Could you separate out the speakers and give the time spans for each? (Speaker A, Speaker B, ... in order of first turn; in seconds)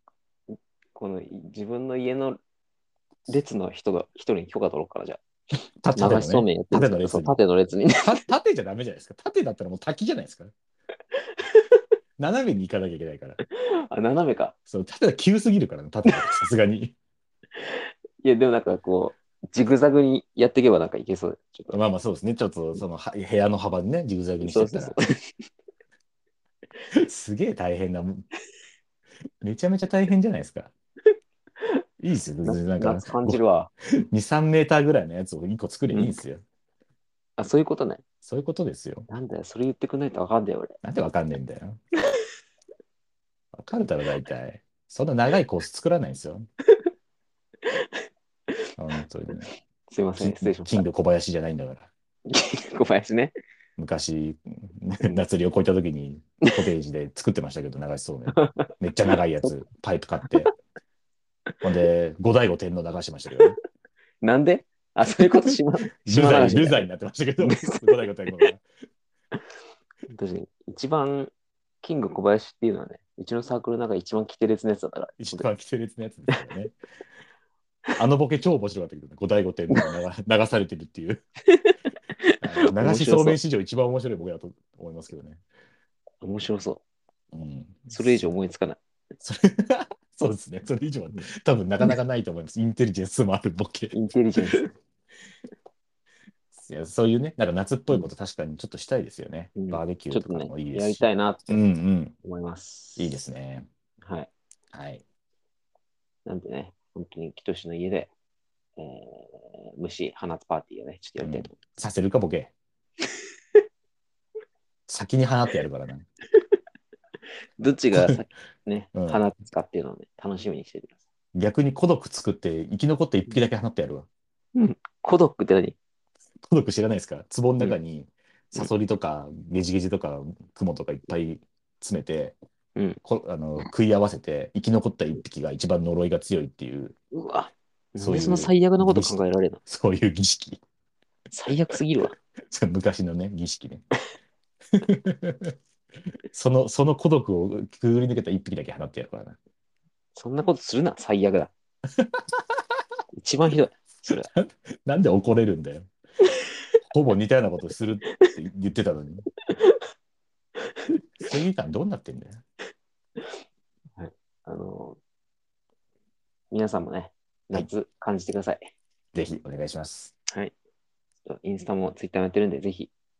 Speaker A: 0.5-2.4, 3.3-5.2, 5.9-8.2, 13.5-14.5, 17.6-21.8, 24.4-25.2, 32.4-33.7, 35.9-36.2, 37.4-38.0, 39.1-40.8, 49.9-50.8, 52.3-53.3, 58.3-58.7, 64.2-66.8, 67.4-68.4, 70.1-75.5, 81.5-83.4, 86.2-86.8, 87.9-88.8, 93.9-94.7, 99.5-101.6, 102.2-103.2, 104.0-104.3, 106.2-108.1, 108.8-111.5, 117.6-121.0, 124.5-125.8, 137.1-139.6, 141.3-142.2, 150.1-151.5, 153.2-154.3, 164.0-165.0, 166.5-168.7, 171.2-172.9
Speaker B: 5.8-7.4, 8.0-10.5, 12.2-13.4, 14.7-16.9, 21.7-25.0, 26.9-28.2, 29.4-30.7, 32.0-33.4, 34.1-36.4, 38.2-39.1, 40.8-41.8, 43.5-46.4, 48.8-49.5, 50.2-51.9, 53.8-60.5, 61.6-63.6, 66.0-68.6, 75.2-76.7, 77.9-81.2, 82.4-85.4, 87.3-88.3, 89.2-93.9, 96.5-102.1, 103.0-103.7, 104.7-105.0, 111.2-112.5, 114.9-116.0, 118.9-119.2, 121.3-124.1, 126.4-132.3, 133.0-136.9, 138.0-140.6, 142.5-143.8, 144.7-145.5, 146.3-149.4, 152.0-152.2, 154.1-155.9, 156.9-159.2, 161.2-162.4, 169.1-170.1